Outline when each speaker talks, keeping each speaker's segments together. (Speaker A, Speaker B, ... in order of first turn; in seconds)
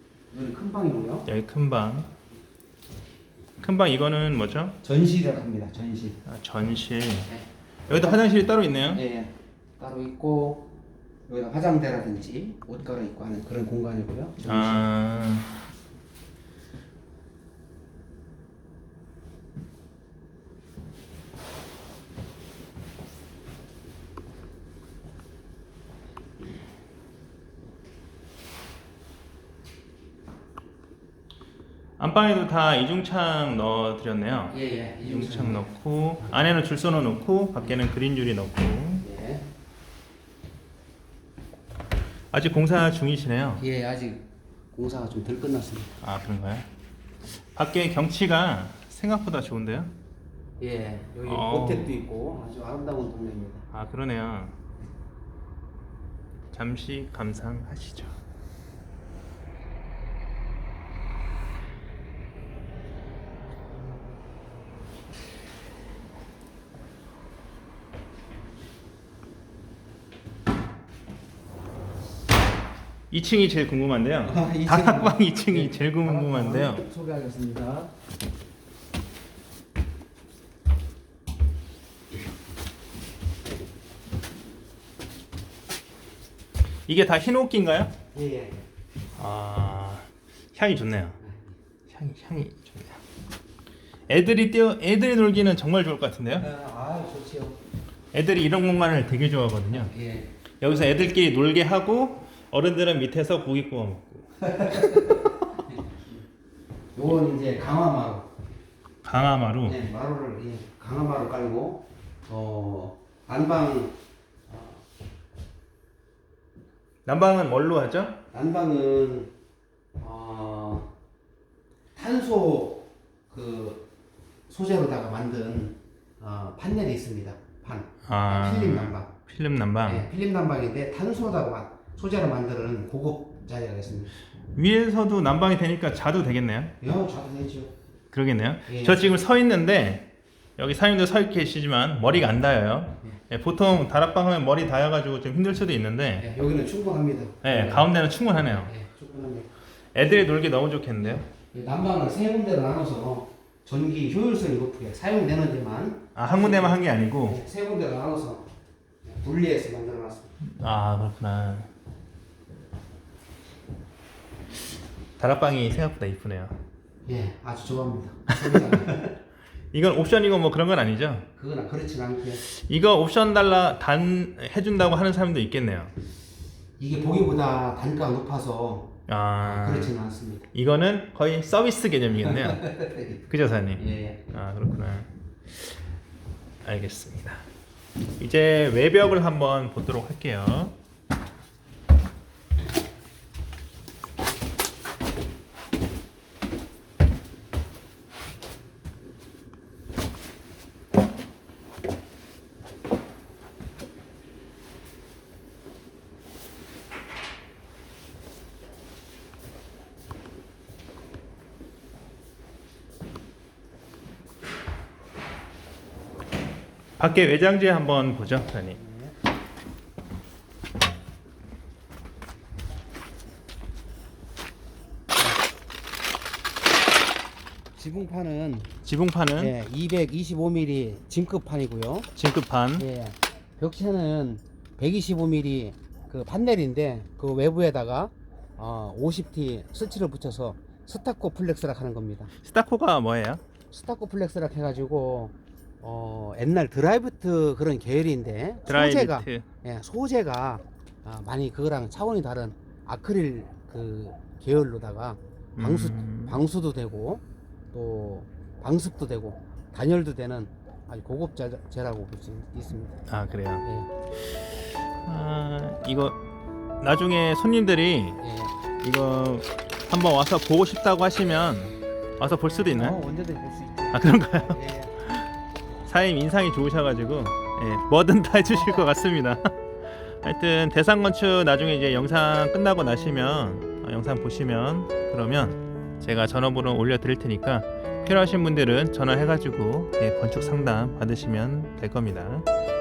Speaker A: 0.3-1.3, 4.8-6.2, 7.3-8.2, 8.9-10.7, 11.3-14.9, 34.5-35.7, 39.0-39.5, 43.6-46.0, 50.6-53.7, 74.2-77.9, 88.1-88.6, 91.2-91.5, 96.4-97.6, 99.7-100.3, 104.5-106.0, 107.0-108.3, 109.7-114.0, 114.5-114.8, 118.3-119.3, 120.0-120.9, 122.0-123.8, 124.5-129.1, 129.8-134.1, 136.8-137.7, 138.7-139.2, 146.2-149.5, 151.5-158.5, 159.0-160.3, 167.1-169.1, 171.4-172.4, 176.8-180.5, 182.2-183.2, 183.8-184.2, 218.7-219.2, 227.8-228.7, 229.4-232.1, 232.8-242.3, 243.7-263.0, 263.6-263.9, 268.2-268.6, 272.7-275.0
Speaker B: 1.3-2.1, 3.6-4.8, 6.3-7.3, 7.9-9.0, 14.4-15.6, 32.0-39.1, 42.3-43.6, 46.0-46.7, 47.5-49.9, 51.2-52.0, 53.7-54.6, 56.5-58.2, 73.1-76.9, 86.9-87.9, 89.2-91.2, 91.9-93.0, 94.1-96.5, 98.1-99.9, 100.6-105.3, 109.0-109.8, 117.0-118.2, 128.1-130.1, 134.6-136.8, 138.1-146.3, 147.4-148.7, 149.9-151.3, 156.2-157.4, 160.4-161.7, 165.2-166.6, 169.7-171.3, 172.4-175.9, 179.1-179.9, 180.5-185.8, 186.6-187.4, 188.2-190.8, 217.0-218.8, 228.8-229.5, 232.2-232.9, 242.4-243.4, 248.7-249.5, 255.6-256.4, 263.1-263.6, 264.2-266.2, 266.8-268.2, 268.8-273.0, 273.9-275.3, 275.9-292.5